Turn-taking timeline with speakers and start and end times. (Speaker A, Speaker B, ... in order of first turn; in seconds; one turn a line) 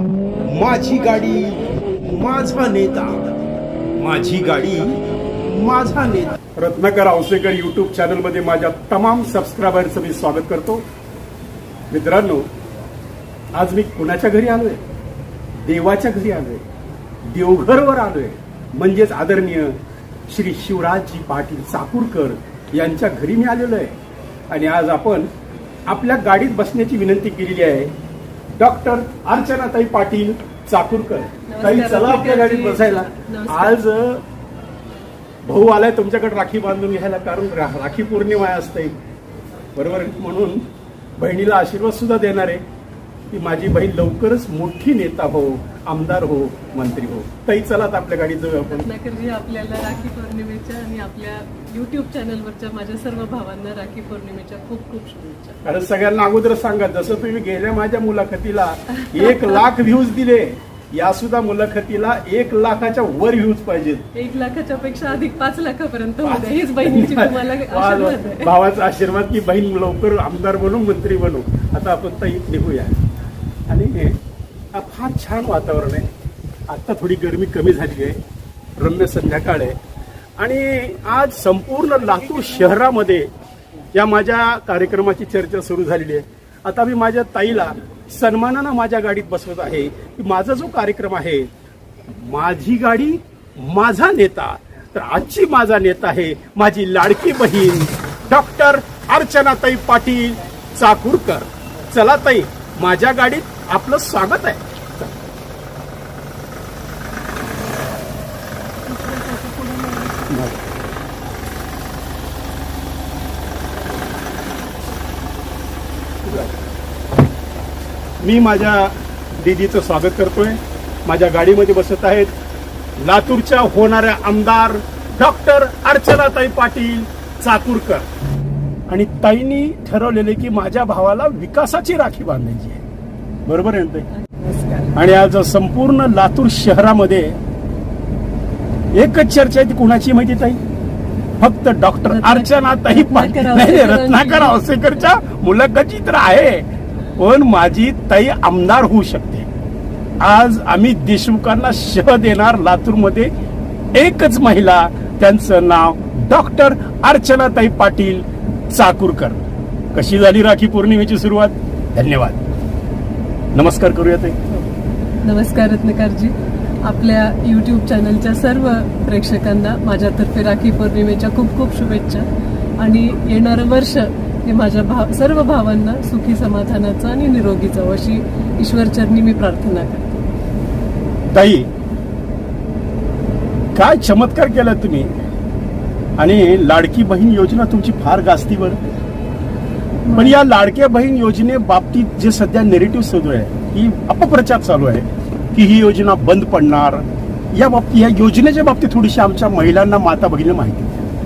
Speaker A: 0.4-3.3
Speaker A: 4.0-10.8
Speaker A: 11.9-12.5
Speaker A: 13.5-14.8
Speaker A: 15.6-16.6
Speaker A: 17.3-19.8
Speaker A: 20.3-23.9
Speaker A: 24.5-25.3
Speaker A: 25.9-27.9
Speaker A: 28.6-34.2
Speaker B: 31.5-33.8
Speaker A: 35.4-38.9
Speaker A: 39.7-40.6
Speaker A: 41.2-42.6
Speaker A: 43.3-48.9
Speaker B: 48.7-55.6
Speaker A: 55.6-64.0
Speaker B: 59.0-59.6
Speaker B: 64.1-68.5
Speaker A: 66.2-73.0
Speaker A: 73.7-74.2
Speaker A: 74.7-76.1
Speaker A: 76.7-78.2
Speaker A: 78.8-79.8
Speaker A: 80.4-83.3
Speaker A: 83.9-91.5
Speaker A: 92.1-105.2
Speaker B: 108.8-110.5
Speaker A: 116.2-116.5
Speaker A: 118.2-122.3
Speaker A: 123.0-128.1
Speaker A: 128.9-132.8
Speaker A: 133.4-134.1
Speaker B: 134.2-135.0
Speaker A: 134.9-137.4
Speaker A: 138.9-140.6
Speaker A: 141.4-149.5
Speaker B: 142.1-144.8
Speaker A: 150.2-153.3
Speaker A: 153.9-159.4
Speaker A: 159.9-162.4
Speaker A: 163.5-164.4
Speaker B: 165.2-172.2
Speaker B: 172.8-180.2
Speaker A: 181.3-181.7
Speaker A: 183.7-185.1
Speaker A: 186.2-188.8
Speaker B: 190.0-190.4
Speaker A: 190.1-201.0